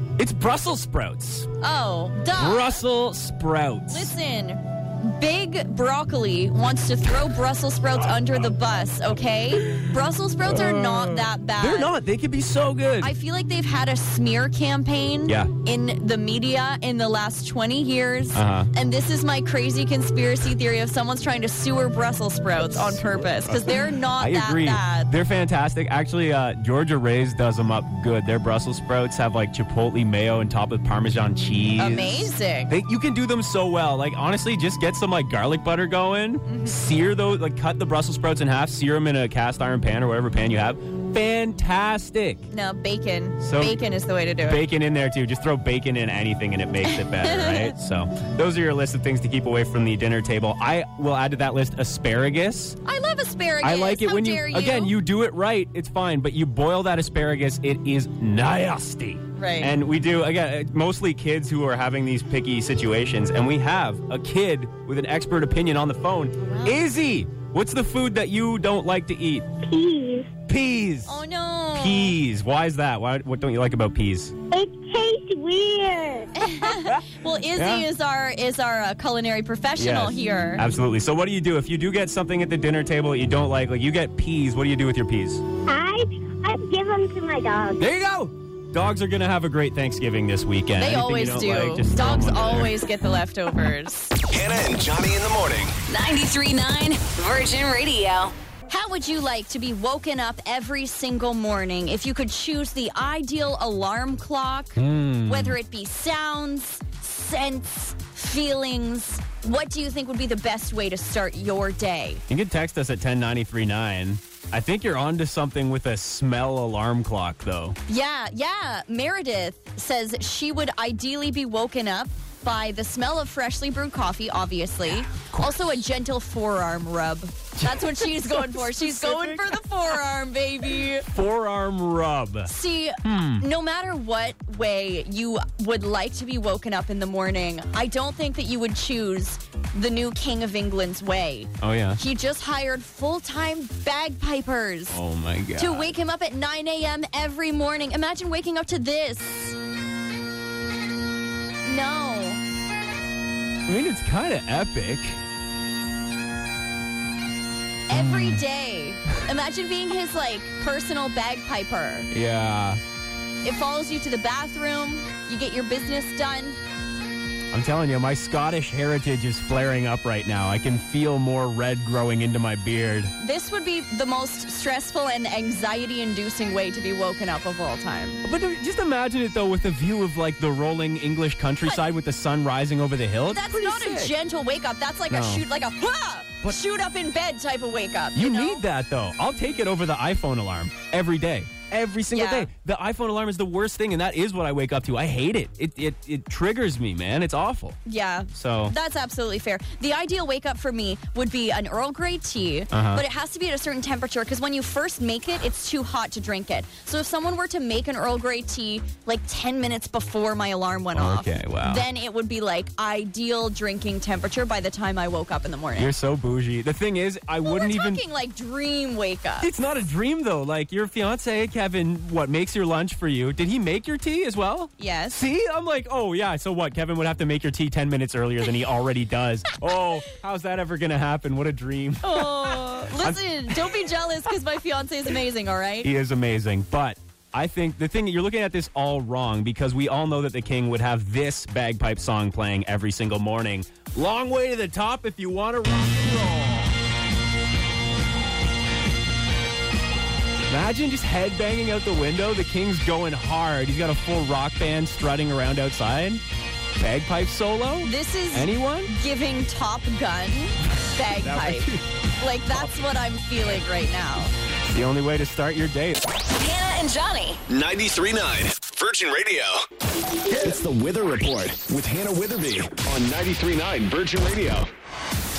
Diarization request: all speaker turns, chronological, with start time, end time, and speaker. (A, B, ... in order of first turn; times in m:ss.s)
0:00.2-0:01.5 A
0:01.6-0:02.8 B
0:02.4-0:04.1 A
0:03.9-0:11.9 B
0:08.1-0:08.5 A
0:09.6-0:09.9 A
0:10.4-0:13.1 A
0:13.0-0:25.1 B
0:15.2-0:15.5 A
0:18.3-0:18.7 A
0:22.7-0:42.4 A
0:31.8-0:32.7 B
0:36.4-0:36.8 B
0:42.5-0:44.6 B
0:43.4-0:43.8 A
0:44.4-0:52.8 A
0:46.9-0:47.7 B
0:52.8-0:55.0 B
0:53.6-1:09.4 A
0:59.4-0:59.7 B
1:06.4-1:06.8 B
1:09.6-1:10.3 C
1:10.5-1:11.2 A
1:11.1-1:12.2 B
1:11.7-1:14.3 A
1:14.5-1:16.3 C
1:16.4-1:20.6 B
1:16.6-1:17.0 A
1:17.5-1:17.8 A
1:19.8-1:25.4 A
1:25.7-1:27.8 C
1:27.8-1:32.7 A
1:30.8-1:34.1 B
1:34.3-1:35.7 D
1:35.9-1:38.3 E
1:38.7-1:52.2 B
1:44.8-1:45.6 A
1:52.3-1:57.8 A
1:57.9-2:11.0 B
2:04.9-2:05.8 A
2:07.6-2:09.6 A
2:11.1-2:12.5 A
2:12.5-2:25.0 B
2:13.0-2:13.4 A
2:21.6-2:22.0 A
2:24.9-2:25.9 A
2:25.6-2:29.6 B
2:31.6-2:32.4 B
2:33.7-2:35.2 A
2:37.9-2:42.1 B
2:37.9-2:38.4 A
2:42.1-2:42.8 A
2:43.4-2:46.6 B
2:47.5-2:53.1 A
2:53.2-2:58.2 B
2:58.2-3:04.1 A
3:03.3-3:08.6 B
3:05.1-3:05.4 A
3:08.2-3:17.8 A
3:12.1-3:12.5 B
3:17.8-3:35.9 B
3:18.3-3:18.7 A
3:22.7-3:23.0 A
3:30.9-3:31.8 A
3:35.8-3:38.0 A
3:37.4-3:39.5 B
3:39.4-3:53.2 A
3:44.8-3:45.2 B
3:52.0-3:55.9 B
3:55.8-4:06.7 A
4:10.5-4:16.2 A
4:16.8-4:18.9 A
4:17.8-4:21.7 B
4:21.2-4:21.8 A
4:22.2-4:24.3 B
4:24.7-4:26.0 A
4:26.3-4:27.4 E
4:27.5-4:29.6 D
4:30.3-4:34.7 D